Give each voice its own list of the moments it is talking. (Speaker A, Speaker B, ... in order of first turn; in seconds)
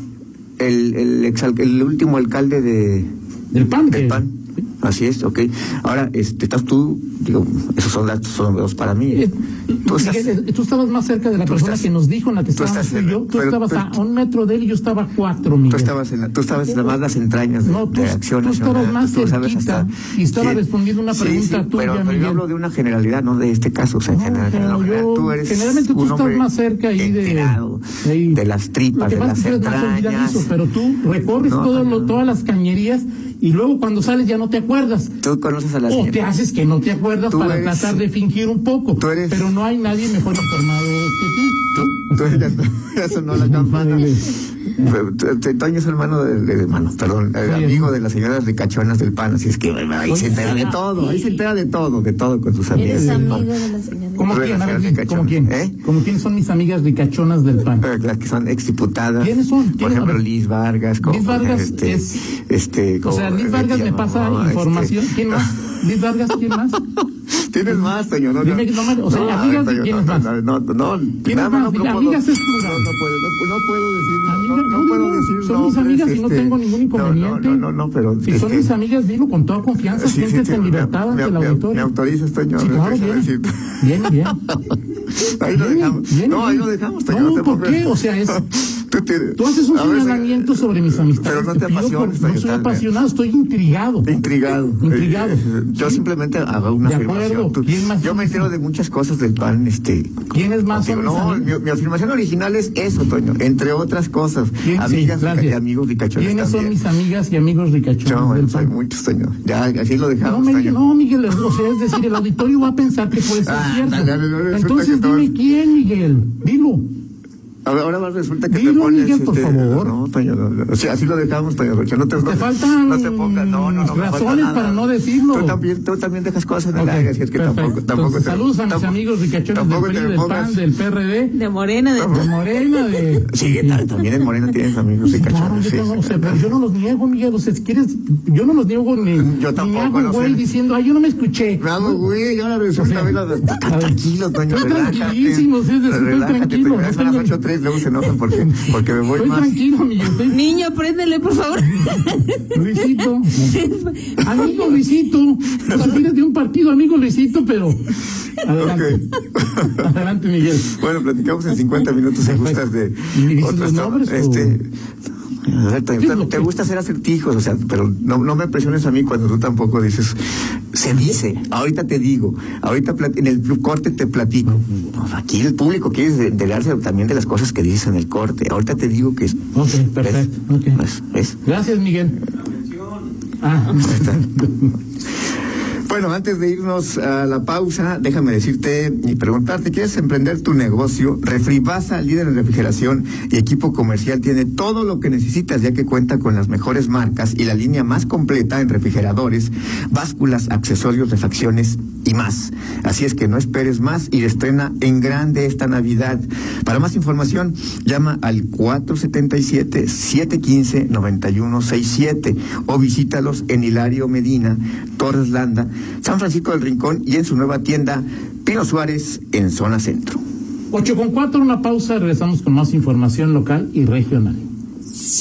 Speaker A: 0.6-3.1, 3.9-9.3, 9.8-10.3, 11.4-11.9, 12.5-13.9, 15.7-30.5, 31.4-32.2, 35.2-36.2, 37.3-38.0, 39.0-39.5, 41.7-44.1, 44.8-53.5, 54.3-55.8, 57.8-65.5, 67.3-78.7, 79.8-83.8, 84.5-92.8, 94.0-106.8, 108.0-110.8, 113.3-115.3, 117.6-130.6, 132.0-132.3, 133.2-136.5, 139.1-140.4, 141.6-150.1, 158.6-159.8, 160.6-164.7, 165.4-170.2, 170.7-179.4, 180.0-181.4, 183.8-184.2, 185.8-220.2
Speaker B: 3.5-4.2, 9.1-15.9, 17.6-22.4, 24.1-28.4, 28.9-35.1, 35.9-42.6, 43.3-45.0, 47.4-47.9, 50.1-50.5, 52.7-53.5, 54.2-57.9, 59.2-60.2, 61.0-62.2, 63.0-66.8, 68.4-70.3, 71.2-72.9, 74.2-77.6, 78.2-81.9, 82.6-84.4, 85.5-88.5, 89.4-94.1, 94.8-96.0, 96.8-98.5, 100.3-101.5, 104.6-105.6, 106.2-108.7, 110.2-116.8, 118.5-119.9, 122.2-125.6, 126.7-131.4, 132.1-133.9, 135.1-142.0, 142.7-147.4, 148.1-150.4, 151.7-153.6, 154.2-159.1, 159.6-160.8, 162.2-164.6, 166.0-166.5, 179.5-180.8, 181.4-182.2, 183.4-184.7, 220.7-224.4
Speaker C: 50.4-51.4, 52.8-54.3, 131.3-132.3, 150.3-154.7, 155.7-156.0